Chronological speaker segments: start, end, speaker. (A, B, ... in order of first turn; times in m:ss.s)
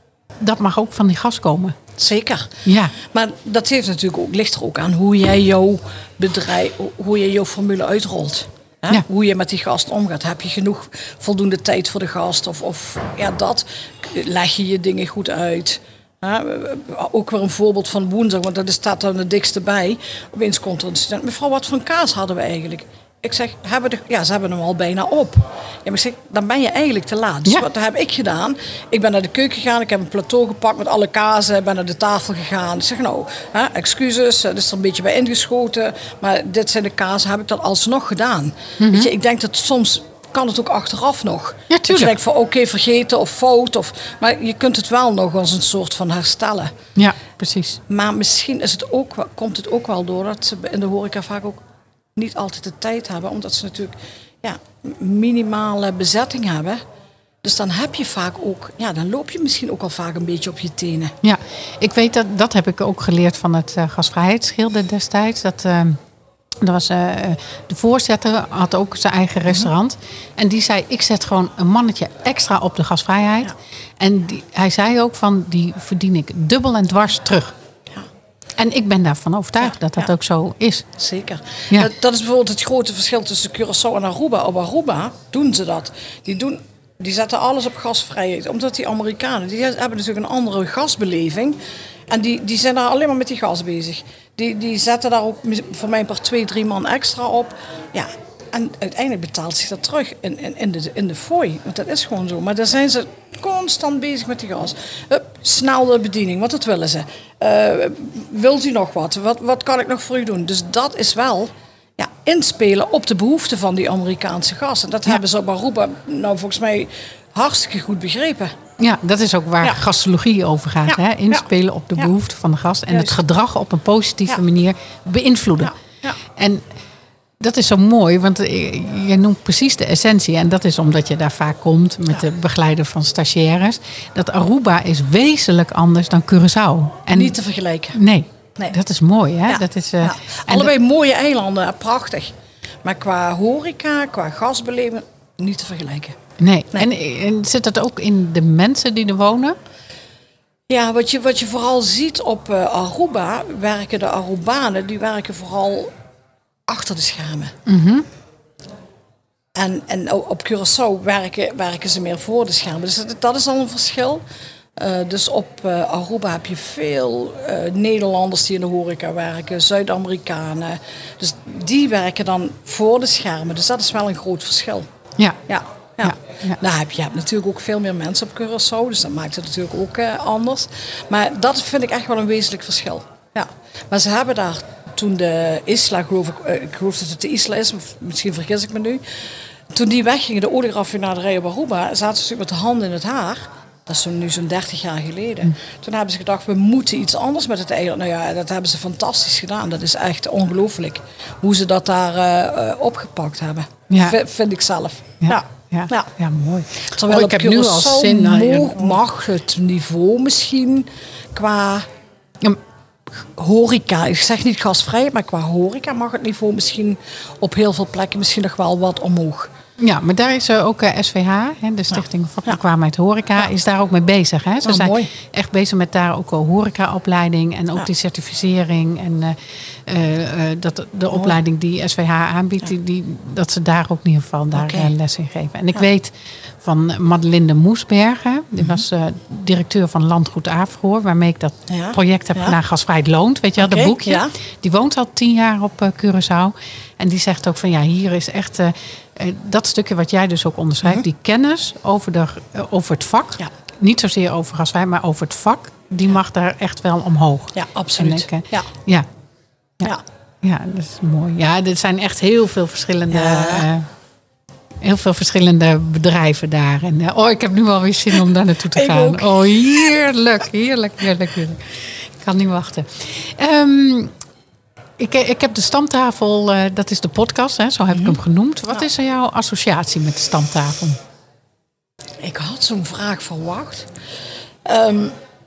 0:00.4-0:01.8 A
0:02.0-0:46.7 B
0:02.6-0:02.9 A
0:38.8-0:39.1 A
0:41.7-0:42.1 A
0:47.0-0:47.8 A
0:47.9-0:51.6 B
0:52.2-0:56.8 B
0:57.4-1:01.1 B
1:01.2-1:06.0 A
1:06.6-1:17.6 A
1:18.6-1:20.9 A
1:21.0-1:31.6 B
1:32.1-1:58.5 B
1:58.8-2:05.7 A
2:00.9-2:01.4 B
2:02.9-2:03.2 B
2:05.6-2:06.2 B
2:06.3-2:06.6 A
2:07.4-2:17.4 A
2:17.1-2:18.0 B
2:17.9-2:20.7 A
2:19.5-2:26.2 B
2:26.4-2:29.6 A
2:30.7-2:35.9 B
2:36.7-2:37.6 B
2:37.6-2:38.1 A
2:39.6-2:44.2 B
2:44.8-2:54.9 B
2:55.5-3:09.0 B
2:56.0-2:56.6 A
3:09.7-3:26.1 B
3:23.9-3:24.2 A
3:25.2-3:29.0 A
3:26.8-3:31.9 B
3:33.4-3:39.5 B
3:39.8-4:19.1 A
3:42.0-3:42.6 B
3:44.6-3:45.1 B
3:51.1-3:51.4 B
3:54.5-3:54.9 B
4:01.7-4:02.6 B
4:03.6-4:04.3 B
4:17.5-4:18.7 B
4:19.8-4:23.9 A
4:23.1-4:23.7 B
4:24.8-4:34.1 A
4:28.7-4:29.3 B
4:35.0-4:41.0 A
4:37.9-4:38.2 B
4:42.2-4:43.9 B
4:44.6-4:45.1 B